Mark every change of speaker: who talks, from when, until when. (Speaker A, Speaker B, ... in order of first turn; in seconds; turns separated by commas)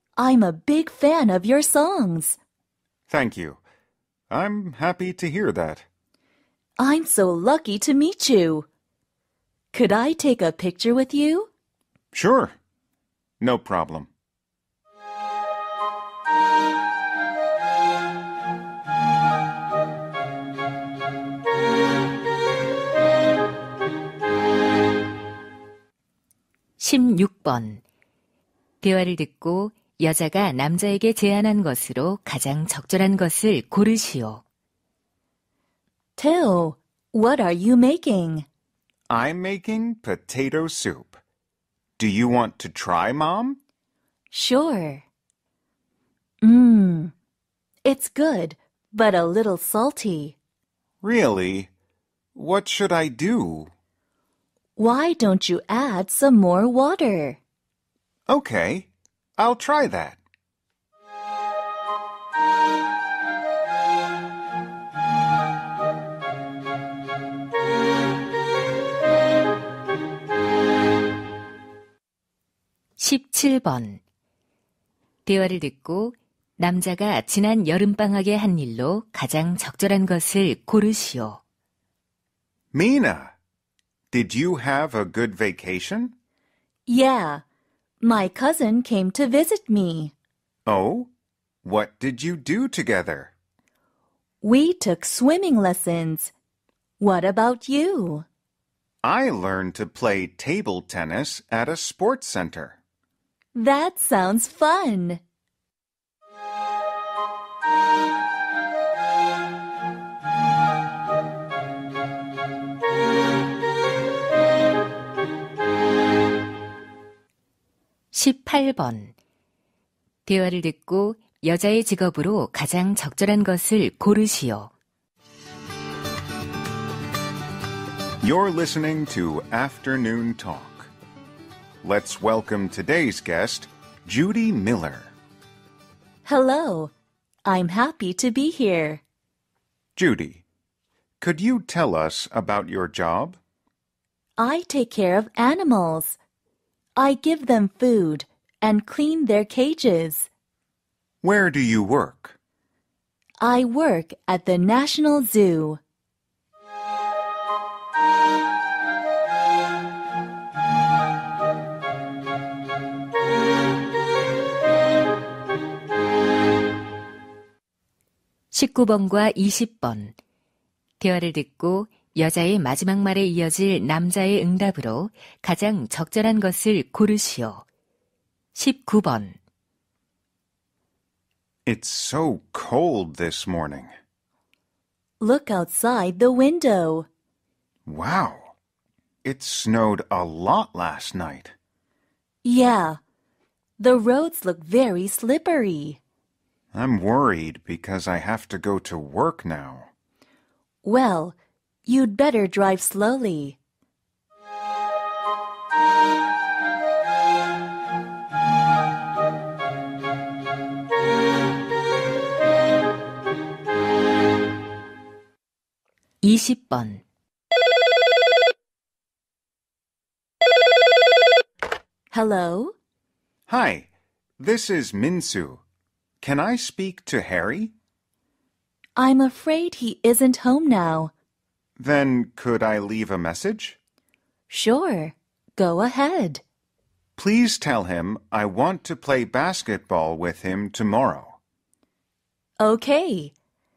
Speaker A: 0.2-2.4, Speaker B: 3.1-3.6, Speaker B: 4.3-5.9, Speaker A: 6.8-8.7, Speaker A: 9.7-11.5, Speaker B: 12.1-12.6, Speaker B: 13.4-14.1, Speaker C: 26.8-27.8, Speaker C: 28.8-34.4, Speaker A: 36.2-38.5, Speaker B: 39.1-41.2, Speaker B: 42.0-43.6, Speaker A: 44.3-45.0, Speaker A: 46.4-47.1, Speaker A: 47.9-50.4, Speaker B: 51.0-51.7, Speaker B: 52.4-53.7, Speaker A: 54.8-57.4, Speaker B: 58.3-60.2, Speaker C: 73.0-74.0, Speaker C: 75.2-81.4, Speaker B: 82.7-83.3, Speaker B: 84.1-86.1, Speaker A: 86.9-87.4, Speaker A: 88.0-90.1, Speaker B: 90.7-91.1, Speaker B: 91.6-93.3, Speaker A: 94.4-96.3, Speaker A: 97.0-98.3, Speaker B: 99.0-102.8, Speaker A: 103.5-105.2, Speaker C: 118.1-119.2, Speaker C: 120.3-124.7, Speaker B: 128.2-130.9, Speaker B: 131.8-135.1, Speaker A: 136.2-136.9, Speaker A: 137.5-139.0, Speaker B: 140.0-140.4, Speaker B: 141.2-143.4, Speaker A: 144.4-146.2, Speaker A: 147.0-150.3, Speaker B: 151.2-152.4, Speaker A: 153.4-155.8, Speaker C: 168.5-170.2, Speaker C: 171.0-177.7, Speaker C: 178.5-179.4, Speaker B: 181.7-183.9, Speaker A: 185.2-187.1, Speaker B: 187.9-188.5, Speaker B: 189.2-191.6, Speaker A: 192.4-193.0, Speaker A: 193.8-196.0, Speaker B: 196.7-199.9, Speaker A: 200.8-203.6, Speaker C: 216.2-217.0, Speaker A: 222.1-222.8, Speaker B: 223.5-223.9, Speaker B: 224.4-225.6, Speaker B: 226.2-227.7, Speaker A: 229.0-231.1, Speaker B: 231.8-233.8, Speaker A: 234.5-236.4, Speaker B: 237.2-241.4, Speaker A: 242.6-243.3